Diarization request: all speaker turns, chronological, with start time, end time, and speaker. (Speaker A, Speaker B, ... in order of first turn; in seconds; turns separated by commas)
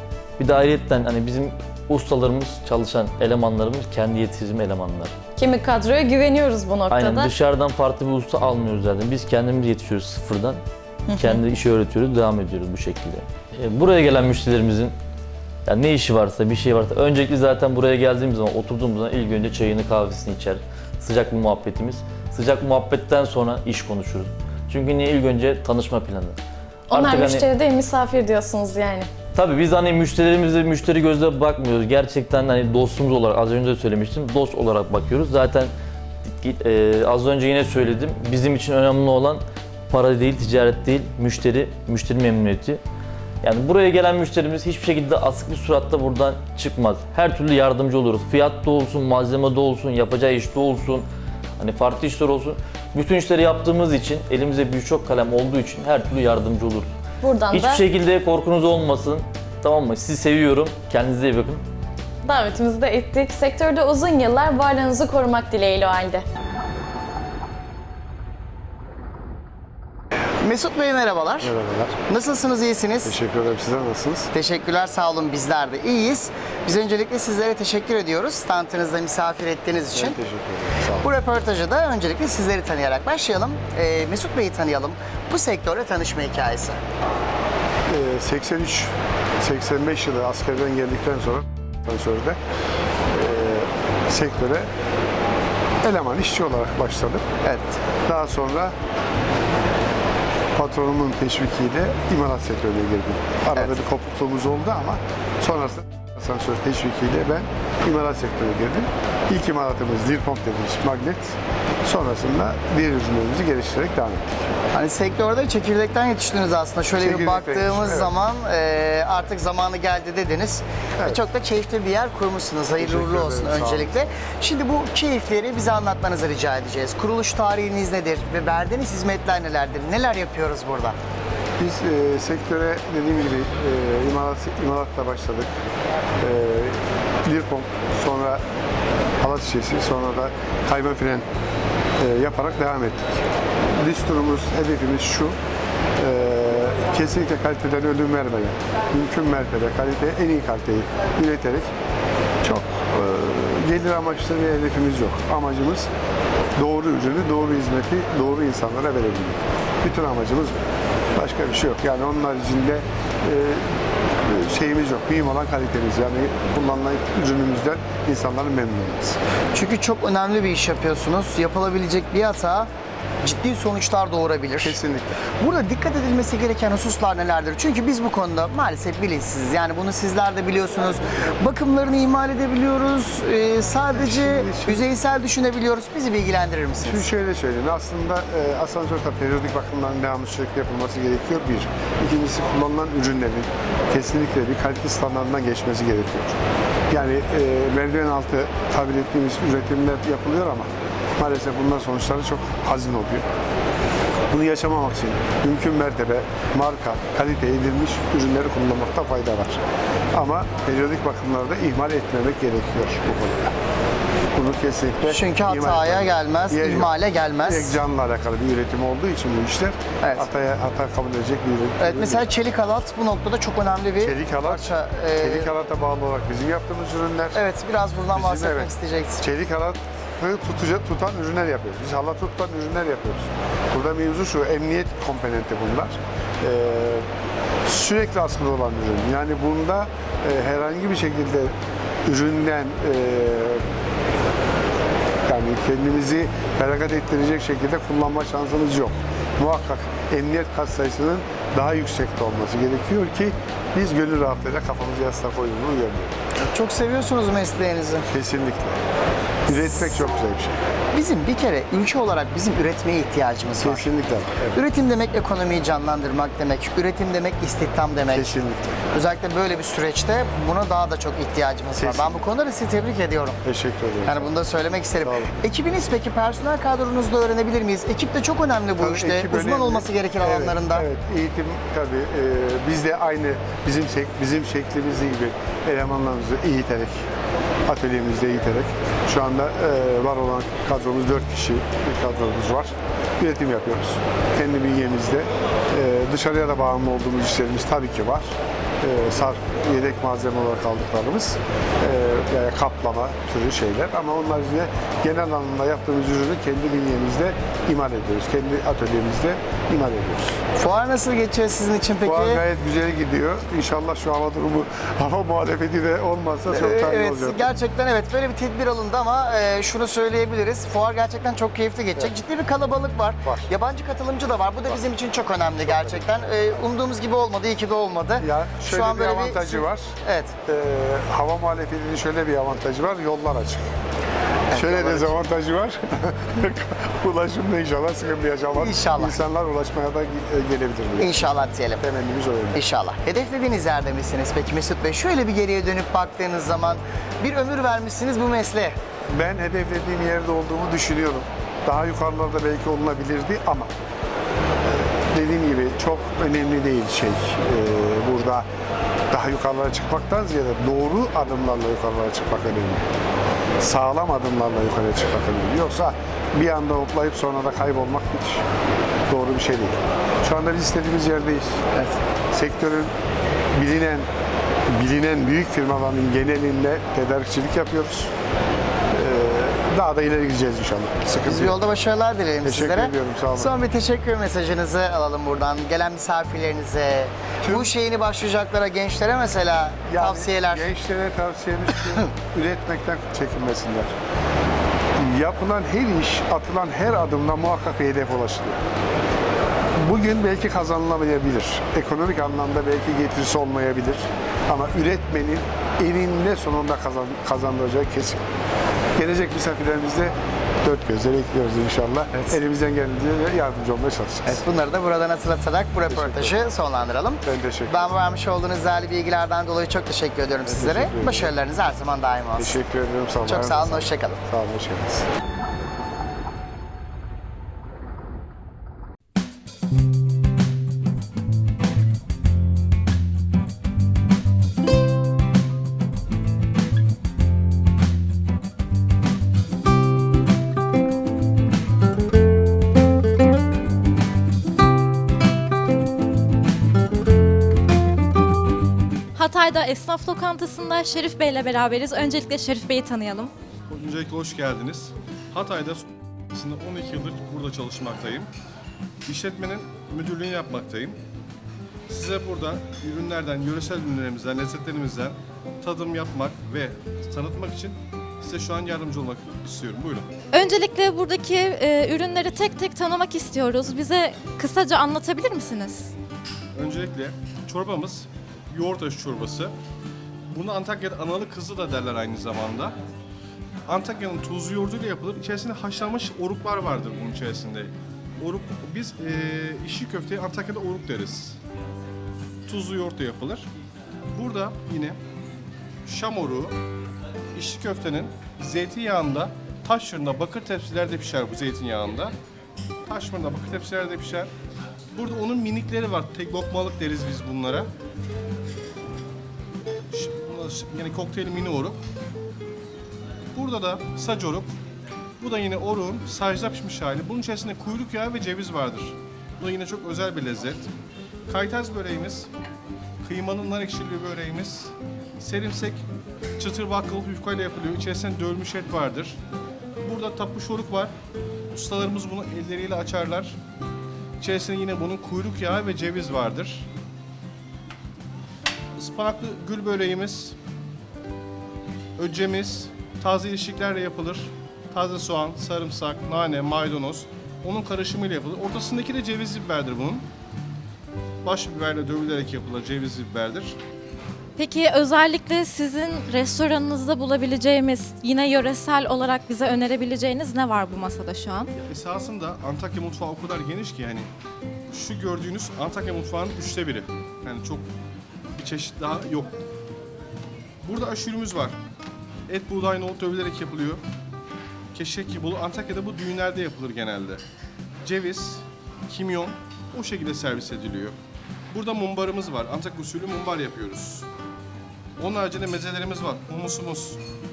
Speaker A: 0.4-5.1, Speaker B: 5.4-7.3, Speaker A: 6.9-10.6, Speaker A: 11.2-14.9, Speaker A: 15.7-26.4, Speaker B: 26.9-29.1, Speaker A: 26.9-27.5, Speaker A: 29.4-35.7, Speaker A: 36.2-42.8, Speaker A: 43.4-51.1, Speaker A: 51.6-56.9, Speaker B: 57.2-57.8, Speaker A: 57.5-61.6, Speaker B: 62.2-66.2, Speaker C: 70.4-71.5, Speaker D: 71.4-72.0, Speaker C: 72.1-73.1, Speaker D: 73.0-74.3, Speaker C: 74.3-80.2, Speaker D: 80.0-81.1, Speaker C: 81.0-86.8, Speaker D: 87.9-92.4, Speaker D: 93.1-94.7, Speaker D: 95.8-97.2, Speaker C: 97.4-97.8, Speaker D: 98.0-98.8, Speaker D: 100.5-114.5, Speaker C: 114.7-131.0, Speaker D: 117.0-118.1, Speaker D: 122.8-124.1, Speaker D: 131.6-135.5, Speaker D: 136.2-138.4, Speaker D: 139.2-141.2, Speaker D: 142.0-145.4, Speaker D: 146.0-151.7, Speaker D: 152.4-155.9, Speaker D: 156.6-160.6, Speaker D: 161.1-169.2, Speaker C: 169.5-172.7, Speaker C: 173.2-174.8, Speaker D: 174.6-175.1, Speaker C: 175.4-187.0, Speaker D: 183.9-184.8, Speaker D: 186.8-203.3, Speaker D: 204.3-209.6, Speaker D: 210.1-213.5, Speaker D: 214.3-216.9, Speaker C: 215.1-217.8, Speaker D: 217.4-222.3, Speaker C: 220.0-220.3, Speaker C: 221.8-225.5, Speaker D: 224.0-227.4, Speaker C: 227.3-229.2, Speaker D: 228.1-237.1, Speaker D: 237.6-241.5, Speaker D: 242.1-243.6, Speaker D: 245.3-256.1, Speaker C: 256.4-258.1, Speaker D: 258.1-258.8, Speaker D: 259.5-260.6, Speaker C: 259.5-259.9, Speaker C: 260.9-263.9, Speaker D: 263.6-264.6, Speaker C: 264.5-268.4, Speaker D: 268.1-268.8, Speaker C: 268.9-273.4, Speaker D: 271.8-272.2, Speaker D: 273.4-274.3, Speaker C: 274.1-280.9, Speaker D: 275.0-275.3, Speaker D: 278.8-287.1, Speaker D: 287.7-310.4, Speaker C: 310.6-312.4, Speaker D: 312.0-317.5, Speaker C: 316.5-330.3, Speaker D: 323.2-323.5, Speaker D: 325.7-326.1, Speaker D: 328.2-329.9, Speaker D: 330.5-333.6, Speaker C: 334.5-335.2, Speaker D: 334.5-342.6, Speaker C: 338.5-339.2, Speaker C: 341.0-341.8, Speaker C: 342.5-348.8, Speaker D: 349.1-353.7, Speaker D: 354.7-358.5, Speaker D: 359.1-362.9, Speaker D: 363.6-368.4, Speaker D: 369.1-372.9, Speaker D: 373.5-374.1, Speaker D: 374.7-378.1, Speaker D: 378.9-381.6, Speaker C: 381.2-390.7, Speaker D: 382.4-383.5, Speaker D: 387.4-387.7, Speaker D: 389.9-393.9, Speaker D: 395.0-398.6, Speaker D: 399.8-408.2, Speaker D: 409.0-414.4, Speaker C: 414.3-422.6, Speaker D: 415.9-416.4, Speaker D: 417.2-417.9, Speaker D: 420.4-421.4, Speaker D: 422.4-425.1, Speaker C: 423.2-424.2, Speaker E: 449.1-453.3, Speaker F: 453.7-458.3, Speaker F: 459.1-461.0, Speaker F: 461.9-470.1, Speaker E: 470.3-475.9, Speaker F: 476.6-479.5, Speaker F: 480.3-482.8, Speaker F: 483.7-491.4, Speaker F: 492.5-493.5, Speaker F: 494.1-495.0, Speaker F: 495.9-496.6, Speaker F: 497.4-502.1, Speaker F: 502.9-504.3, Speaker F: 504.9-507.7, Speaker F: 509.9-511.8, Speaker F: 513.4-514.5, Speaker F: 515.2-520.7, Speaker F: 521.3-522.3, Speaker F: 523.0-525.8, Speaker F: 526.4-529.2, Speaker F: 529.8-530.9, Speaker F: 531.5-533.4, Speaker F: 534.2-536.7, Speaker F: 538.8-540.4, Speaker F: 542.0-550.0, Speaker F: 551.2-553.6, Speaker E: 554.4-561.5, Speaker F: 561.5-564.1, Speaker F: 564.7-567.7, Speaker F: 568.4-569.3, Speaker F: 570.6-571.6, Speaker F: 572.3-573.8, Speaker F: 574.7-577.2, Speaker F: 577.8-581.0, Speaker F: 581.5-584.1, Speaker F: 585.0-587.0